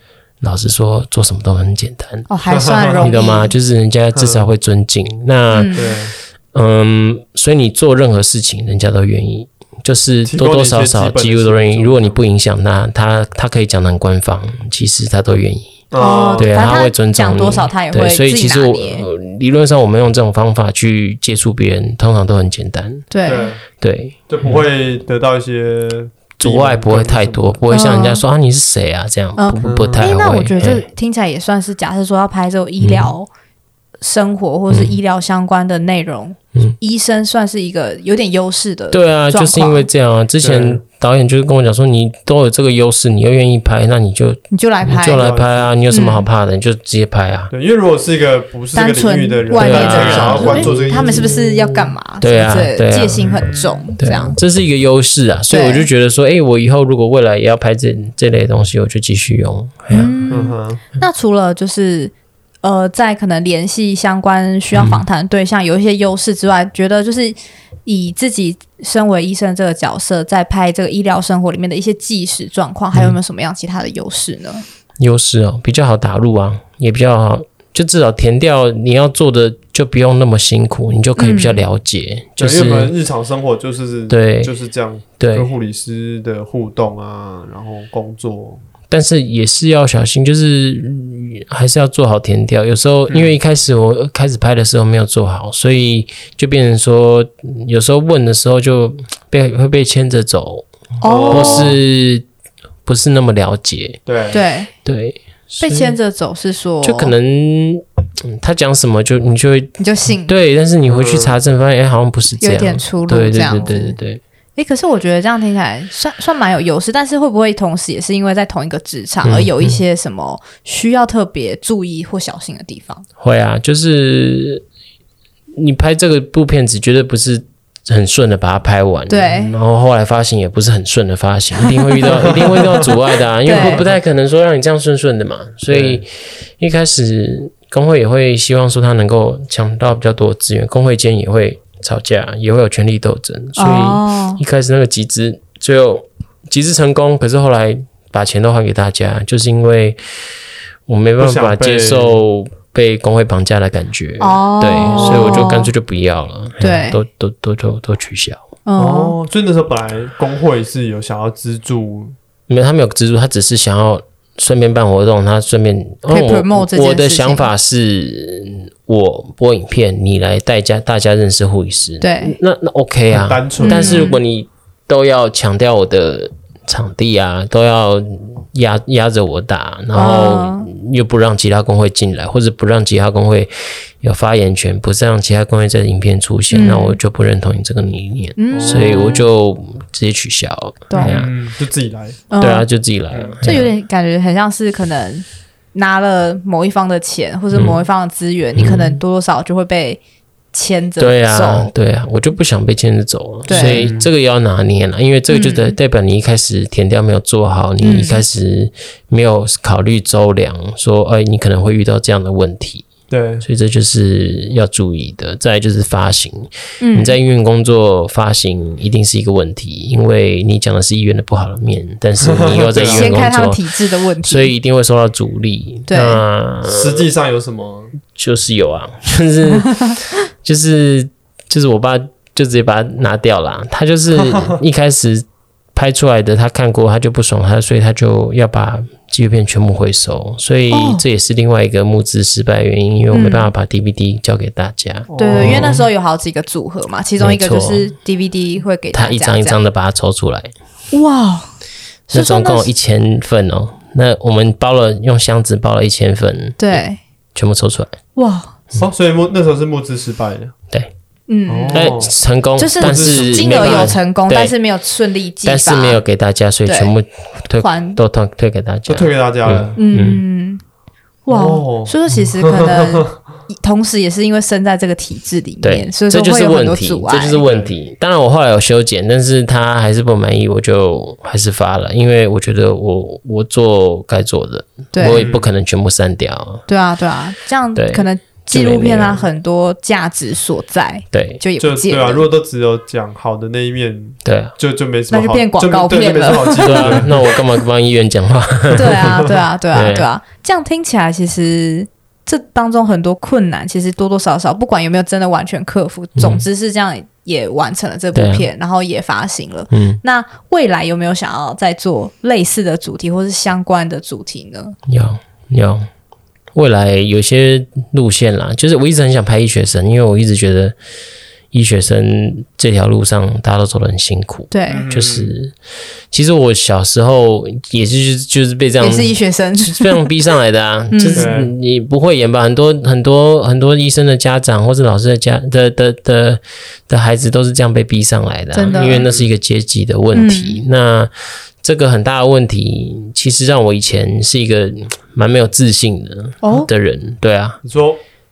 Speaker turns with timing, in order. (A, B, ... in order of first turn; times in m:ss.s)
0:00.4-0:02.3 A
0:02.3-0:03.5 B
0:02.5-0:03.1 C
0:03.0-0:05.8 A
0:04.1-0:04.4 C
0:05.5-0:05.9 B
0:05.7-0:06.1 C
0:06.5-0:23.1 A
0:10.2-0:12.2 C
0:15.9-0:16.6 C
0:16.0-0:19.1 B
0:23.1-0:23.5 B
0:23.2-0:23.6 C
0:23.8-0:24.6 A
0:24.3-0:27.6 C
0:26.4-0:30.8 A
0:27.7-0:28.2 B
0:29.4-0:33.3 B
0:29.6-0:30.1 C
0:32.8-0:33.1 A
0:34.0-0:39.9 B
0:34.7-0:35.0 A
0:38.9-0:47.5 A
0:40.4-0:40.8 C
0:44.5-0:45.3 B
0:45.1-0:45.8 C
0:45.9-0:46.3 B
0:47.5-0:51.8 C
0:48.8-0:54.4 B
0:49.5-0:51.4 A
0:52.2-1:00.4 A
0:53.2-0:53.9 C
0:55.5-0:55.9 B
0:59.9-1:14.6 B
1:00.3-1:00.8 C
1:04.7-1:05.0 A
1:15.0-1:22.9 A
1:21.2-1:21.7 B
1:22.4-1:28.6 C
1:24.1-1:24.5 A
1:25.2-1:25.5 A
1:28.9-1:40.7 A
1:33.1-1:33.3 C
1:41.0-1:41.8 B
1:41.0-1:41.8 C
1:41.3-1:42.2 A
1:42.9-1:44.0 A
1:44.1-1:44.4 C
1:44.3-1:44.7 B
1:44.8-1:46.0 A
1:45.6-1:47.1 B
1:46.8-1:54.2 A
1:49.8-1:50.3 B
1:50.9-1:51.4 C
1:52.4-1:54.0 B
1:54.6-2:03.0 B
1:59.2-1:59.8 A
2:03.2-2:04.6 A
2:05.6-2:30.0 A
2:09.1-2:09.6 B
2:11.6-2:12.9 B
2:12.0-2:12.8 C
2:13.4-2:13.8 B
2:13.6-2:13.9 C
2:15.7-2:16.0 C
2:23.6-2:24.4 B
2:30.9-2:38.5 A
2:31.2-2:32.2 C
2:34.2-2:35.7 B
2:34.9-2:35.4 C
2:36.6-2:37.0 B
2:38.7-2:39.2 B
2:38.8-2:42.2 C
2:42.5-3:11.3 A
2:46.1-2:47.5 B
2:52.0-2:52.4 B
2:53.1-2:54.1 C
2:53.6-2:54.2 B
3:00.0-3:00.7 B
3:06.5-3:07.0 B
3:08.4-3:09.2 B
3:08.5-3:09.3 C
3:10.9-3:11.2 B
3:11.0-3:12.2 C
3:12.3-3:12.7 B
3:12.4-3:13.7 A
3:13.1-3:13.6 C
3:13.4-3:20.0 B
3:17.5-3:17.8 A
3:18.6-3:19.0 A
3:20.5-3:21.7 B
3:21.0-3:32.9 A
3:23.5-3:23.9 B
3:23.5-3:24.1 C
3:25.3-3:25.8 B
3:27.8-3:28.2 B
3:33.1-3:33.4 C
3:33.4-3:43.6 A
3:36.8-3:37.2 B
3:42.2-3:43.2 C
3:42.8-3:44.5 B
3:44.2-3:47.1 A
3:45.9-3:46.2 B
3:46.6-3:47.9 C
3:48.1-4:05.9 A
3:54.2-3:54.6 C
4:00.7-4:01.0 B
4:03.1-4:03.5 B
4:05.1-4:05.8 C
4:05.2-4:09.6 B
4:07.2-4:07.9 A
4:08.9-4:10.5 A
4:10.9-4:11.5 B
4:12.1-4:12.7 B
4:12.1-4:16.8 A
4:16.6-4:17.0 B
4:17.4-4:18.0 A
4:18.2-4:18.6 B
4:18.8-4:20.5 C
4:21.3-4:22.0 B
4:21.5-4:22.1 C
4:21.7-4:24.5 A
4:22.6-4:26.0 B
4:22.8-4:24.0 C
4:25.4-4:30.2 A
4:26.7-4:26.9 B
4:27.6-4:28.0 B
4:28.9-4:29.8 C
4:29.8-4:30.6 B
4:31.3-4:37.4 B
4:31.3-4:33.1 C
4:35.6-4:46.6 A
4:37.4-4:37.7 C
4:44.9-4:45.3 B
4:45.0-4:45.5 C
4:46.7-4:52.3 B
4:47.8-4:49.2 A
4:51.1-4:51.4 A
4:51.6-4:57.3 C
4:54.2-4:54.5 A
4:55.1-4:57.1 B
4:56.6-5:00.1 A
4:58.7-4:59.3 C
4:58.7-5:14.8 B
5:06.2-5:06.5 A
5:08.1-5:08.5 A
5:09.7-5:10.0 A
5:14.9-5:15.9 A
5:16.5-5:20.8 A
5:21.5-5:25.5 A
5:24.5-5:24.9 B
5:24.7-5:25.4 C
5:26.1-5:41.1 A
5:28.8-5:30.1 B
5:30.9-5:31.3 B
5:31.1-5:31.5 C
5:38.5-5:39.1 B
5:38.7-5:39.3 C
5:40.1-5:40.6 B
5:41.6-5:47.6 A
5:46.4-5:46.7 B
5:47.6-5:48.0 C